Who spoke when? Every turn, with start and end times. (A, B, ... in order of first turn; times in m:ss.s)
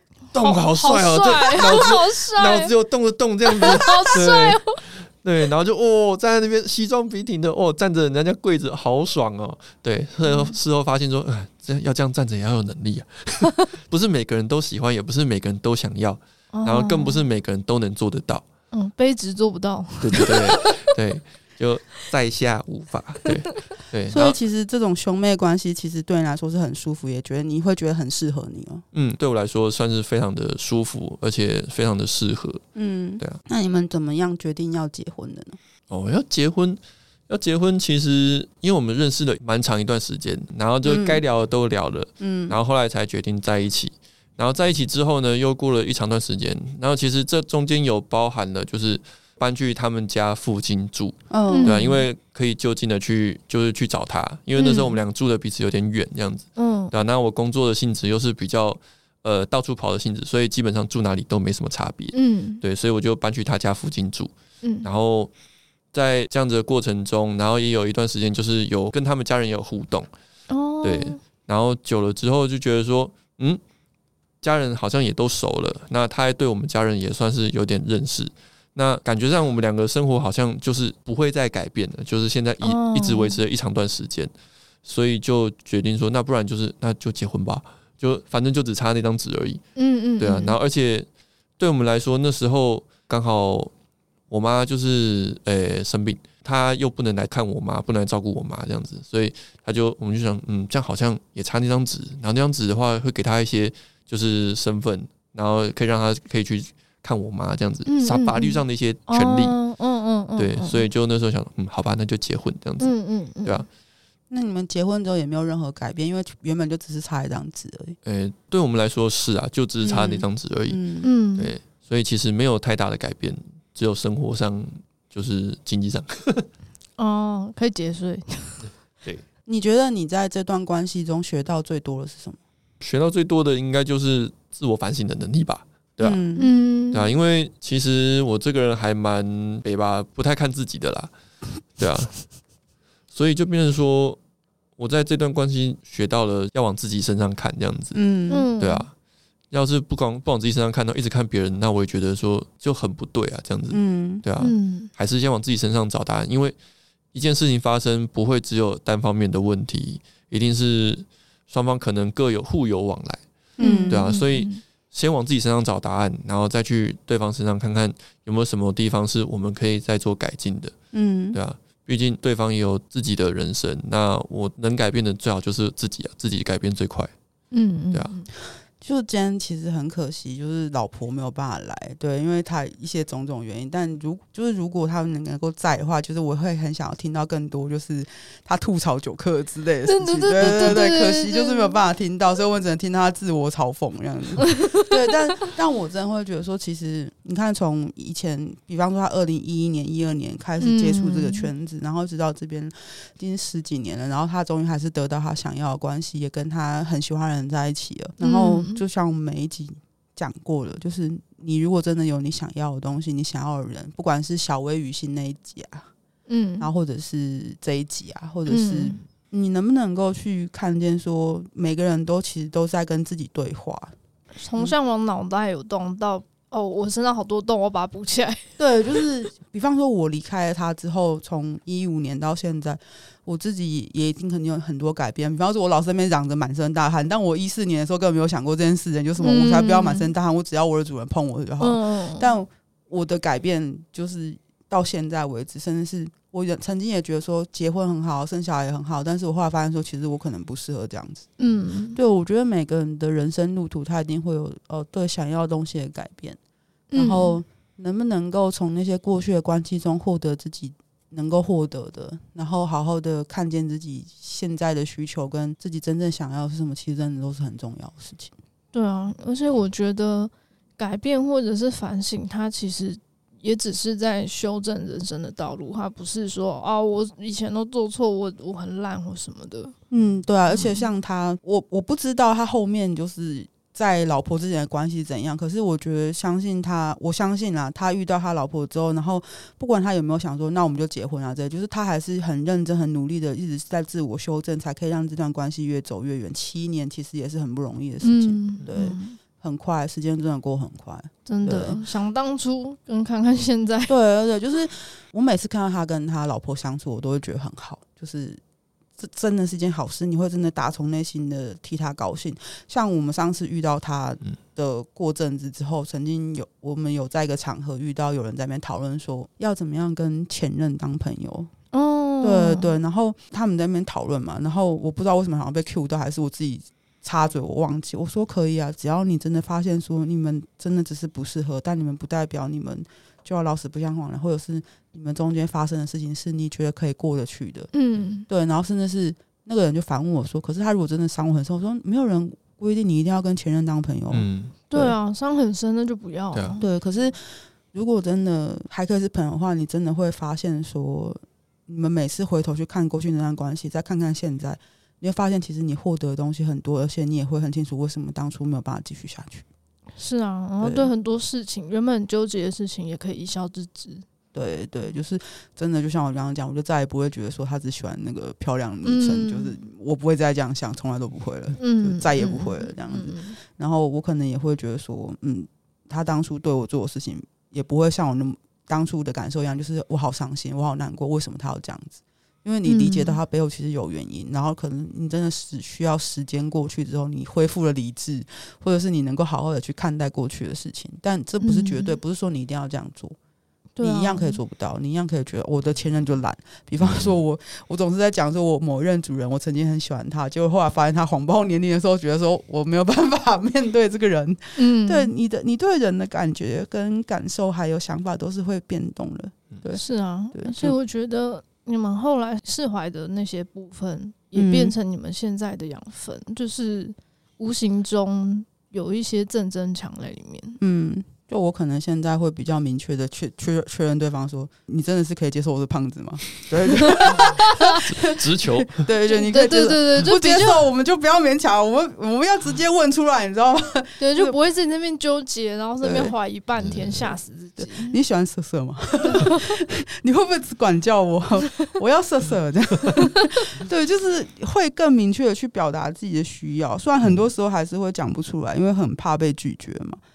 0:00.3-0:18.4 A
0:00.4-0:02.7 B
0:03.6-0:04.8 B
0:10.2-0:10.6 B
0:16.5-0:17.2 B
0:18.7-0:20.9 B
0:20.0-0:24.4 A
0:24.1-0:28.8 C
0:28.9-0:32.6 A
0:32.8-0:35.6 C
0:35.9-1:04.3 A
0:40.8-0:41.2 C
0:42.2-0:42.6 C
0:51.3-0:51.8 C
0:51.5-0:52.0 B
0:54.6-0:55.0 B
0:56.6-0:56.9 B
1:02.1-1:02.6 B
1:04.6-1:04.9 B
1:04.8-1:05.3 A
1:05.9-1:10.1 A
1:10.5-1:11.2 B
1:10.8-1:13.6 A
1:14.4-1:24.3 A
1:22.6-1:23.4 B
1:24.8-1:29.6 A
1:29.8-1:30.6 B
1:30.2-1:31.1 A
1:31.6-1:33.7 A
1:34.3-1:49.6 A
1:47.9-1:50.8 B
1:50.4-1:52.9 A
1:52.8-1:53.7 B
1:54.3-1:58.0 C
1:58.0-2:00.8 A
1:59.8-2:01.1 C
2:01.0-2:01.5 B
2:01.4-2:06.5 A
2:07.0-2:08.7 B
2:09.5-2:12.4 C
2:12.8-2:16.2 A
2:16.0-2:16.5 C
2:16.4-2:17.1 B
2:16.9-2:21.1 A
2:21.8-2:22.2 A
2:23.1-2:24.2 A
2:24.8-2:28.0 A
2:27.9-2:28.5 C
2:28.3-2:28.9 B
2:28.6-2:28.9 A
2:29.5-2:36.6 A
2:33.7-2:34.2 C
2:34.4-2:34.9 B
2:37.1-2:43.2 A
2:43.6-2:44.0 C
2:43.6-2:44.6 B
2:43.9-2:50.7 A
2:50.9-2:51.4 C
2:51.3-2:57.1 A
2:57.5-2:58.3 B
2:58.8-3:35.9 C
3:09.8-3:11.8 B
3:20.6-3:21.5 B
3:28.2-3:28.8 B
3:36.3-3:36.7 B
3:36.6-3:43.9 C
3:38.5-3:39.0 B
3:44.4-3:49.0 B
3:48.6-4:11.3 C
3:59.2-4:00.1 B
4:01.6-4:02.3 B
4:11.4-4:12.0 B
4:12.0-4:16.4 C
4:16.9-4:17.4 B
4:17.0-4:28.3 C
4:28.7-4:39.8 B
4:39.9-5:01.8 C
4:40.6-4:40.8 B
4:58.0-4:59.2 B
5:01.3-5:03.9 B
5:03.9-5:08.4 C
5:09.0-5:21.5 C
5:21.7-5:22.7 B
5:22.2-5:37.7 C
5:37.7-5:38.3 B
5:38.3-5:45.0 C
5:44.1-5:44.5 A
5:44.7-5:46.6 B
5:46.6-5:59.5 C
6:00.0-6:04.0 B
6:00.6-6:00.9 C
6:04.3-6:33.2 C
6:08.8-6:09.6 B
6:11.6-6:13.4 B
6:22.6-6:23.2 B
6:31.4-6:32.0 B
6:33.8-6:34.4 B
6:33.8-6:49.8 C
6:36.8-6:37.1 A
6:44.6-6:45.1 B
6:49.8-7:00.6 B
6:50.3-6:50.8 C
6:54.4-6:54.8 C
7:00.6-7:14.4 C
7:07.8-7:08.8 A
7:09.1-7:10.7 B
7:14.0-7:18.0 B
7:15.8-7:16.1 C
7:16.6-7:17.1 A
7:17.6-7:30.0 C
7:19.2-7:19.5 B